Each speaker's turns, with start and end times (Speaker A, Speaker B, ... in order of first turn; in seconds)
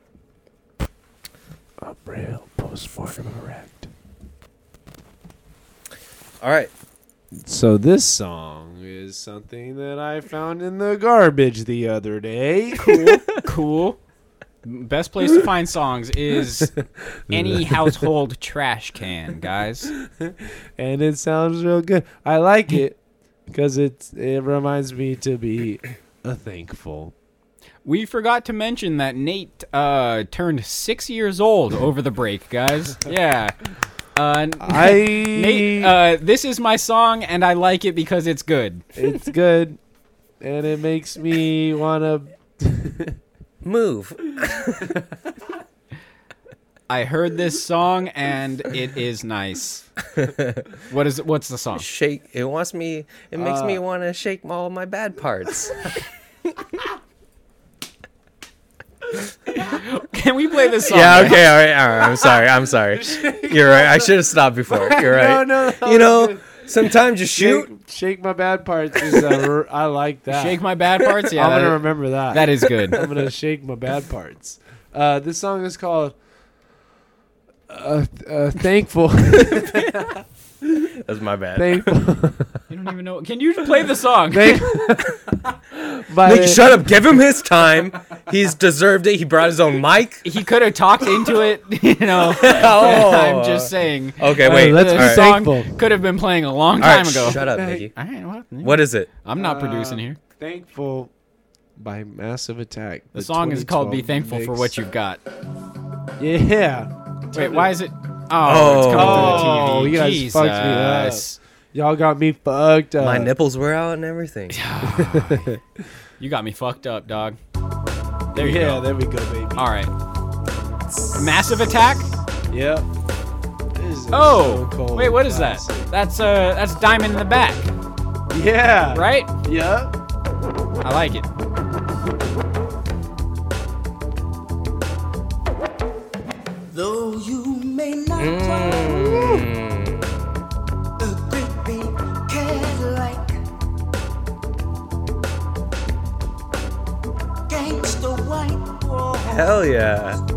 Speaker A: 1.8-3.9, 7.4-13.2, 17.3-18.1, 20.2-23.0, 23.5-27.1, 34.6-35.9, 39.0-39.8, 40.4-43.2, 53.4-53.8, 62.9-66.7, 67.2-70.6, 71.3-76.2, 77.7-80.9, 81.5-82.6, 84.3-86.8, 94.4-95.8, 97.3-97.9, 99.3-101.1, 101.8-104.7, 106.2-107.8, 108.9-113.3, 114.8-115.6, 118.3-119.7, 122.5-122.9, 123.7-125.9, 128.3-129.9
Speaker B: 6.4-6.7, 43.6-44.9, 50.2-50.6, 51.8-55.8, 60.8-67.7, 81.0-82.0, 86.2-90.2, 92.3-95.3, 96.8-97.9, 98.6-99.1, 108.4-109.5, 113.0-114.6, 138.2-140.4, 149.2-150.2
Speaker C: 12.8-14.0, 14.6-16.7, 17.3-19.9, 27.8-33.6, 34.1-38.8, 46.9-49.8, 50.9-51.9, 59.5-61.5, 70.3-73.0, 82.7-84.7, 90.2-100.2, 103.1-105.2, 107.3-111.4, 114.5-115.5, 116.2-117.4, 118.3-118.9, 119.5-119.9, 121.1-122.1, 124.1-127.7, 128.9-129.3, 130.8-131.3
Speaker D: 136.7-139.5, 141.0-143.4, 147.5-149.7